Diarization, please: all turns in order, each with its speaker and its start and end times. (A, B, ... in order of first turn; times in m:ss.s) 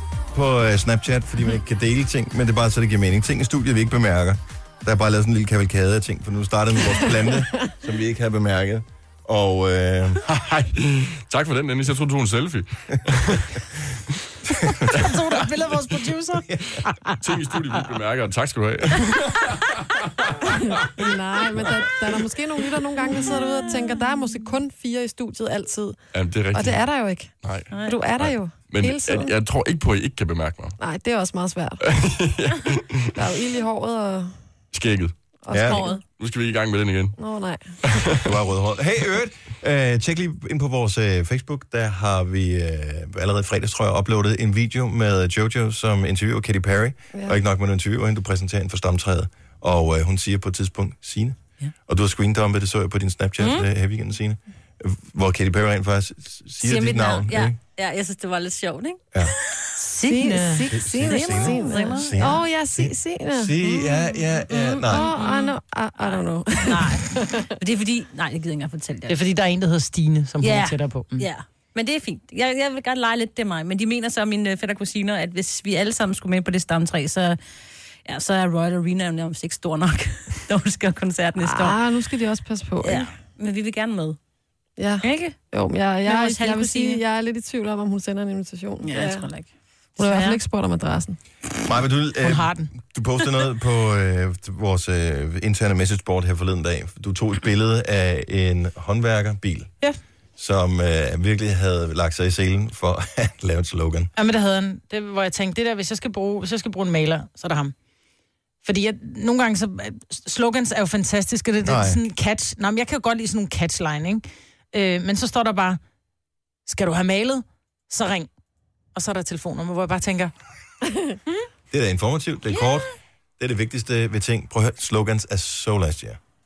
0:00.3-0:10.7 A
0:10.8-0:13.6 B
0:14.5-0:14.9 A
0:14.9-0:17.2 C
0:16.5-0:16.8 A
0:17.2-0:21.7 B
0:20.4-0:26.0 D
0:26.1-0:26.8 B
0:26.5-0:29.3 D
0:27.4-0:30.8 B
0:27.7-0:28.0 E
0:30.8-0:31.8 D
0:31.8-0:33.2 B
0:33.2-0:34.4 D
0:34.7-0:35.1 B
0:35.4-0:36.0 D
0:35.5-0:35.8 A
0:35.6-0:36.0 E
0:36.1-0:37.2 B
0:37.2-0:37.7 D
0:37.8-0:38.3 B
0:38.2-0:57.6 A
0:53.4-0:53.7 E
0:56.6-1:02.4 E
0:59.8-1:00.7 C
1:00.1-1:03.6 D
1:00.7-1:05.1 A
1:04.5-1:09.3 E
1:04.9-1:07.5 D
1:09.1-1:11.3 C
1:10.4-1:17.4 E
1:18.1-1:21.8 E
1:21.4-1:23.1 D
1:22.8-1:24.2 E
1:24.8-1:29.3 D
1:25.0-1:25.4 E
1:26.0-1:27.0 E
1:28.8-1:30.4 E
1:30.0-1:31.2 D
1:31.6-1:39.7 A
1:32.2-1:32.7 C
1:40.4-1:44.1 A
1:44.2-1:47.7 C
1:48.6-1:55.8 C
1:51.6-1:52.0 A
1:56.7-1:58.3 C
1:59.0-2:00.3 C
2:01.7-2:06.2 A